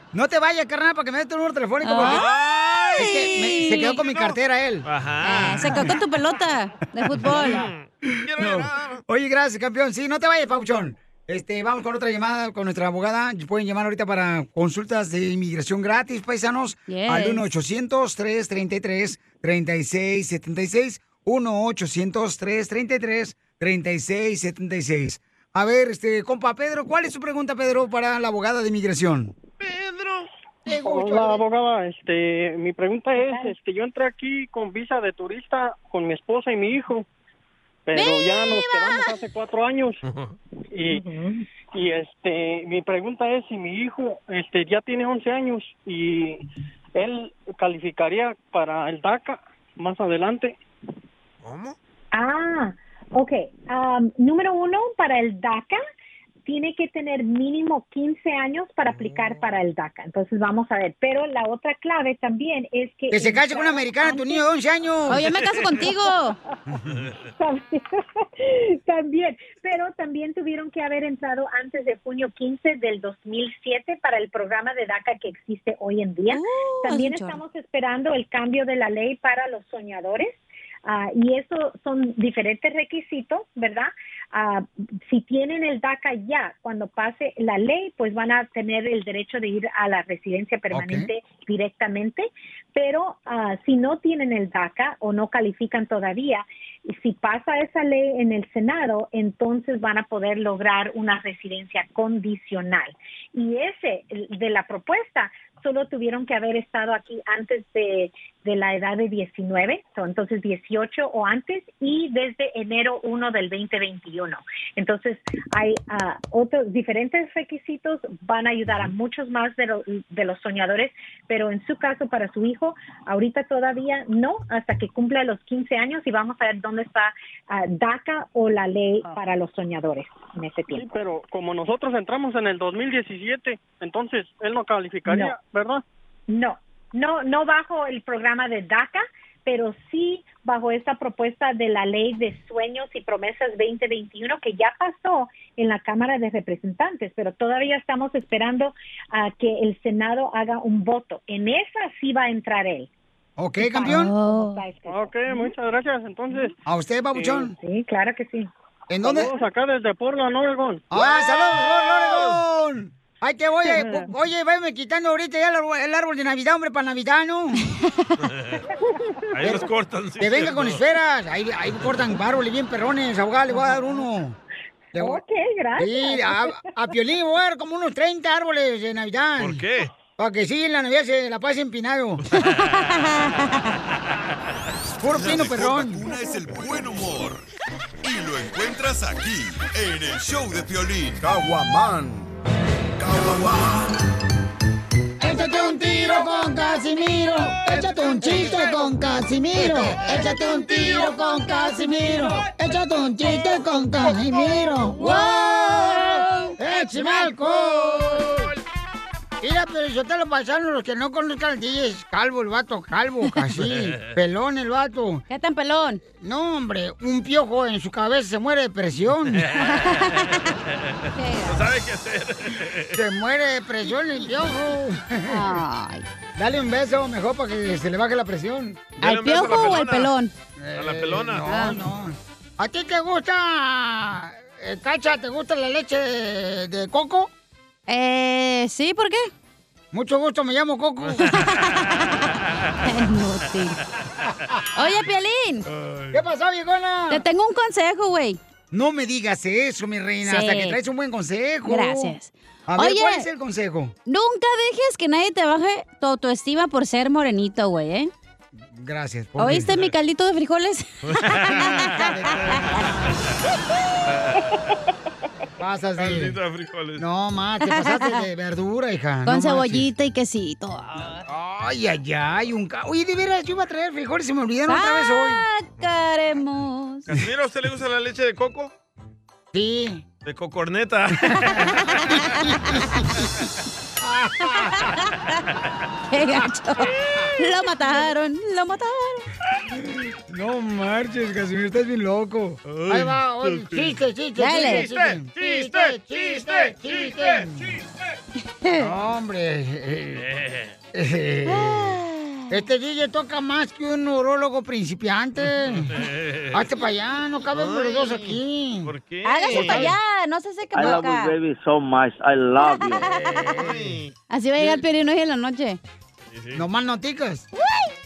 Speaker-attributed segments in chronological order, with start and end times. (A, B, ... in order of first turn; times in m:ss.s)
0:00.1-0:02.2 A
0:01.8-0:02.3 B
0:02.0-0:03.2 C
0:02.9-0:04.0 B
0:03.0-0:05.8 A
0:04.0-0:05.9 C
0:05.2-0:07.7 B
0:07.2-0:09.0 C
0:08.4-0:29.3 A
0:16.9-0:17.4 B
0:29.6-0:30.3 C
0:30.7-0:31.4 A
0:30.7-0:37.0 D
0:33.2-0:33.6 E
0:37.9-0:40.0 D
0:38.0-0:39.2 B
0:40.0-0:40.4 C
0:40.7-0:41.0 D
0:40.9-0:41.4 E
0:41.7-0:46.4 D
0:47.0-0:50.6 D
0:51.4-0:51.8 C
0:52.1-0:55.8 E
0:56.5-1:04.4 E
0:58.9-0:59.4 C
1:03.1-1:05.3 A
1:05.1-1:06.4 B
1:06.9-1:07.1 C
1:07.4-2:10.9 E
1:16.3-1:17.4 B
1:30.7-1:31.1 A
2:10.7-2:15.8 D
2:15.1-2:15.4 E
2:16.3-2:32.9 E
2:33.4-2:34.2 A
2:33.6-2:35.5 E
2:33.8-2:34.7 B
2:34.8-2:36.6 D
2:36.7-2:37.5 A
2:37.1-2:37.5 D
2:37.6-2:38.5 E
2:38.9-2:39.3 A
2:39.0-2:40.8 D
2:40.9-2:47.7 A
2:40.9-2:42.4 C
2:48.2-2:48.6 C
2:48.7-2:49.3 E
2:49.3-2:50.8 C
2:50.2-2:54.4 A
2:54.9-2:55.2 A
2:55.0-2:56.5 E
2:55.8-2:59.6 A
2:59.4-2:59.9 C
3:00.2-3:02.2 A
3:02.6-3:03.6 B
3:05.0-3:06.0 A
3:05.2-3:07.4 F
3:08.0-3:11.3 F
3:15.2-3:26.0 A
3:24.9-3:28.0 B
3:26.6-3:28.4 A
3:29.4-3:35.2 A
3:33.6-3:34.0 C
3:35.3-3:36.0 B
3:36.1-3:39.5 A
3:39.5-3:40.2 C
3:39.6-3:40.5 B
3:40.8-3:43.0 C
3:41.2-3:41.6 B
3:42.9-3:45.5 A
3:45.3-3:46.0 B
3:46.4-3:48.9 A
3:49.0-3:50.2 C
3:49.0-3:50.3 B
3:50.6-3:57.3 A
3:50.8-3:51.5 C
3:51.5-3:51.8 B
3:57.9-3:59.3 B
3:59.9-4:01.3 A
4:01.0-4:02.0 C
4:01.3-4:02.2 B
4:02.9-4:03.8 B
4:04.8-4:05.6 B
4:05.7-4:06.2 C
4:06.1-4:07.2 A
4:07.1-4:08.4 B
4:08.7-4:12.2 A
4:10.2-4:10.8 B
4:11.7-4:13.3 B
4:12.7-4:14.0 A
4:14.1-4:18.1 B
4:18.7-4:19.7 A
4:19.4-4:22.0 B
4:19.7-4:19.9 C
4:21.0-4:22.8 C
4:21.5-4:23.0 A
4:24.1-4:24.5 C
4:25.6-4:26.4 A
4:26.0-4:27.0 C
4:27.0-4:29.9 A
4:27.7-4:28.2 B
4:29.3-4:31.2 B
4:31.3-4:35.4 A
4:34.7-4:37.1 B
4:37.1-4:38.7 C
4:39.5-4:40.0 A
4:40.2-4:41.7 C
4:41.3-4:41.8 A
4:41.8-4:42.6 B
4:44.0-4:44.8 A
4:44.6-4:45.1 B
4:46.1-4:49.2 B
4:46.8-4:47.5 C
4:50.3-4:57.7 A
4:52.7-4:54.0 C
4:54.4-4:54.9 B
4:54.5-4:57.5 C
4:58.6-4:58.9 B
4:58.8-5:00.2 A
5:00.2-5:00.8 C
5:00.9-5:05.9 A
5:01.5-5:02.4 B
5:05.6-5:06.6 C
5:06.5-5:08.9 A
5:07.5-5:10.0 C
5:09.2-5:11.4 B
5:09.5-5:09.9 A
5:10.7-5:13.2 G
5:12.6-5:13.7 B
5:13.2-5:13.9 A
5:13.6-5:14.1 C
5:14.3-5:15.8 B
5:14.6-5:14.8 A
5:16.3-5:16.6 C
5:16.5-5:17.5 A
5:17.6-5:17.9 B